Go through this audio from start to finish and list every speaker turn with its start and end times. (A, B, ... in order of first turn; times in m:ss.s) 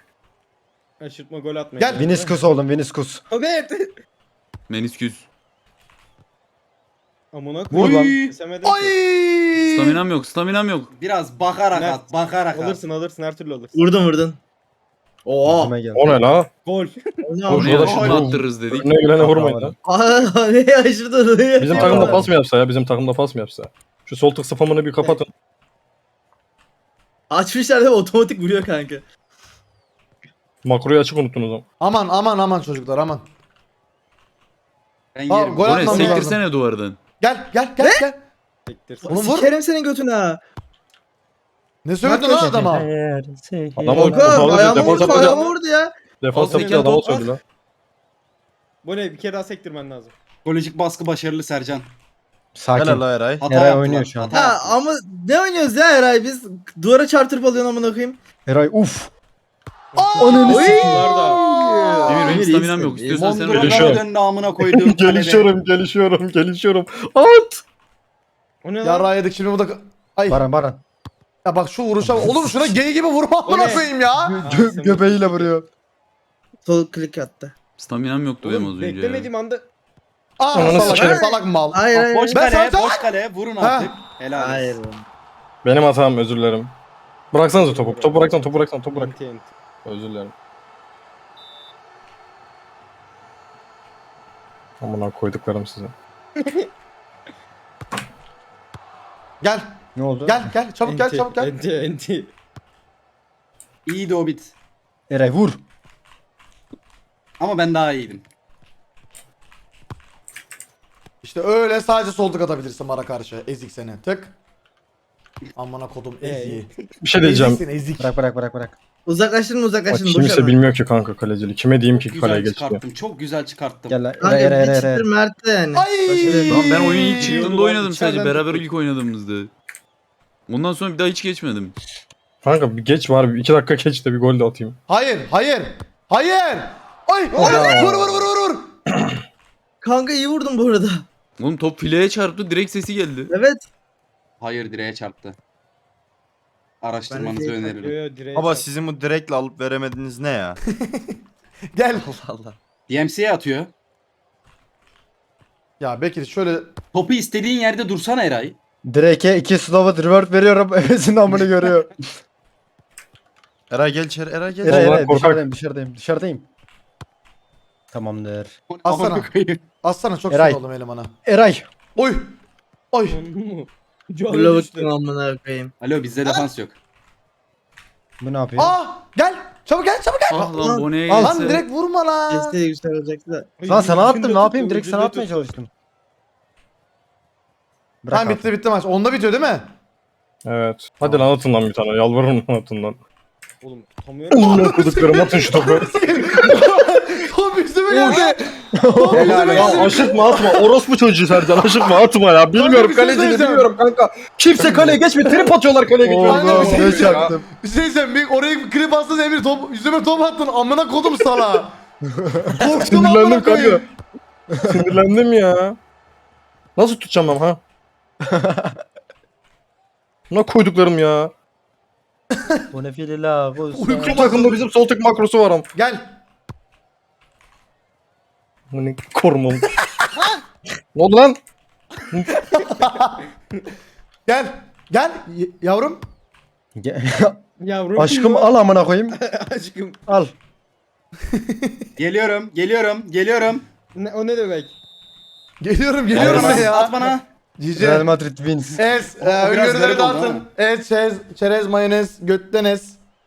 0:01.0-0:02.4 A
0:01.8-0:02.1 B
0:02.0-0:03.2 C
0:03.3-0:04.0 A
0:04.7-0:05.3 D
0:07.3-0:09.0 A
0:07.7-0:08.3 E
0:07.7-0:08.1 C
0:08.6-0:10.0 B
0:09.6-0:10.9 D
0:11.0-0:12.8 E
0:11.7-0:13.8 A
0:13.8-0:14.4 F
0:15.2-0:15.8 F
0:15.4-0:16.2 C
0:15.9-0:16.5 G
0:16.6-0:17.3 A
0:17.2-0:18.0 F
0:17.5-0:19.8 G
0:17.5-0:19.0 D
0:17.8-0:18.2 E
0:19.2-0:19.7 C
0:19.8-0:22.2 F
0:21.6-0:25.3 G
0:21.8-0:22.3 C
0:27.3-0:29.0 F
0:30.6-0:31.6 G
0:31.8-0:33.2 B
0:35.2-0:36.3 E
0:35.3-0:36.4 B
0:35.6-0:37.0 D
0:37.2-0:38.2 B
0:37.8-0:38.1 F
0:38.7-0:39.3 A
0:39.1-0:40.4 F
0:39.1-0:39.5 B
0:41.8-0:42.9 B
0:42.0-0:42.7 F
0:42.1-0:44.7 C
0:43.8-0:45.4 G
0:43.9-0:46.0 F
0:44.6-0:45.6 A
0:44.8-0:45.2 B
0:46.2-0:47.4 G
0:46.3-0:47.3 D
0:46.4-0:47.1 A
0:48.8-0:50.1 A
0:50.4-0:51.9 E
0:52.6-0:54.4 C
0:52.8-0:53.5 H
0:53.4-0:54.8 E
0:54.3-0:58.2 F
0:58.5-0:59.1 C
0:59.9-1:01.6 A
1:00.0-1:02.4 B
1:00.2-1:00.8 C
1:00.4-1:03.3 F
1:02.1-1:04.0 D
1:03.2-1:05.5 E
1:03.2-1:03.7 B
1:03.5-1:04.1 G
1:04.6-1:07.6 G
1:08.6-1:09.2 A
1:08.8-1:10.4 B
1:10.3-1:10.8 C
1:11.4-1:14.4 B
1:13.4-1:15.5 A
1:14.3-1:15.7 C
1:16.6-1:17.5 F
1:17.8-1:19.3 D
1:18.4-1:19.6 A
1:20.4-1:23.1 B
1:20.5-1:21.4 G
1:20.6-1:22.4 F
1:21.9-1:24.8 E
1:23.6-1:24.0 B
1:24.3-1:25.0 F
1:25.6-1:26.7 G
1:27.3-1:29.2 G
1:27.5-1:29.5 A
1:29.8-1:30.3 G
1:34.8-1:35.9 G
1:36.4-1:36.7 A
1:39.4-1:39.8 B
1:40.0-1:40.5 C
1:40.3-1:41.5 B
1:40.8-1:42.3 A
1:43.9-1:44.5 E
1:45.1-1:45.6 C
1:47.4-1:48.2 E
1:51.2-1:54.3 B
1:55.6-1:56.7 B
1:56.2-1:56.9 A
1:57.0-1:57.6 G
1:57.2-1:58.2 B
1:58.0-1:58.8 C
1:59.1-2:00.6 F
1:59.9-2:02.8 G
2:02.1-2:04.0 E
2:03.9-2:05.1 C
2:04.2-2:06.6 F
2:05.7-2:06.6 B
2:06.3-2:07.6 E
2:06.3-2:08.6 A
2:06.5-2:09.5 D
2:10.5-2:11.8 D
2:12.4-2:14.8 G
2:14.9-2:18.7 B
2:17.3-2:18.0 A
2:17.4-2:18.0 F
2:17.4-2:18.0 G
2:18.9-2:19.2 G
2:19.8-2:21.0 F
2:21.4-2:23.3 D
2:23.3-2:23.7 F
2:24.4-2:25.4 E
2:26.8-2:28.0 E
2:27.1-2:27.8 F
2:27.8-2:28.7 A
2:28.4-2:30.6 H
2:30.7-2:31.2 B
2:31.7-2:32.2 B
2:32.1-2:32.6 H
2:32.9-2:33.7 E
2:35.8-2:36.7 B
2:36.9-2:38.6 E
2:38.8-2:41.9 C
2:43.7-2:45.0 H
2:44.6-2:45.4 G
2:44.6-2:46.5 C
2:47.9-2:48.6 C
2:48.7-2:49.6 E
2:48.9-2:49.3 B
2:49.8-2:51.1 B
2:50.3-2:50.6 C
2:51.3-2:51.7 C
2:52.0-2:52.3 B
2:52.9-2:53.2 B
2:53.1-2:54.9 A
2:54.3-2:55.7 F
2:55.8-2:56.8 E
2:58.2-2:58.8 C
2:58.6-3:00.6 B
3:00.3-3:01.6 D
3:00.5-3:01.3 F
3:01.1-3:02.6 B
3:02.3-3:03.5 F
3:03.6-3:05.5 A
3:03.7-3:05.7 C
3:08.0-3:08.5 C
3:08.1-3:09.7 B
3:10.5-3:13.0 G
3:11.0-3:11.3 C
3:13.6-3:14.9 A
3:14.3-3:16.6 G
3:14.6-3:20.7 B
3:17.9-3:18.3 G
3:18.0-3:18.4 A
3:18.8-3:19.8 C
3:19.0-3:20.0 E
3:19.4-3:27.3 G
3:22.5-3:23.7 B
3:24.6-3:25.0 C
3:24.8-3:25.5 B
3:26.0-3:27.4 C
3:26.1-3:31.8 B
3:32.1-3:32.6 C
3:32.6-3:33.9 B
3:32.9-3:33.8 G
3:34.6-3:34.8 C
3:34.6-3:35.8 G
3:36.8-3:37.6 G
3:38.2-3:38.8 C
3:40.3-3:41.3 G
3:42.4-3:42.6 B
3:42.7-3:44.4 C
3:43.7-3:44.6 B
3:44.1-3:45.7 G
3:45.7-3:46.0 B
3:48.7-3:49.7 G
3:50.2-3:50.4 B
3:51.0-3:51.4 G
3:52.1-3:52.4 G
3:52.5-3:53.2 B
3:54.3-3:56.0 B
3:56.8-3:57.4 C
3:57.6-4:00.0 A
3:58.0-3:59.2 C
4:00.1-4:00.3 C
4:01.3-4:01.9 B
4:02.0-4:03.6 E
4:04.0-4:04.8 A
4:05.6-4:07.0 B
4:06.1-4:07.2 E
4:06.2-4:06.8 C
4:07.6-4:08.1 B
4:07.8-4:08.8 C
4:08.6-4:10.5 E
4:08.8-4:13.0 B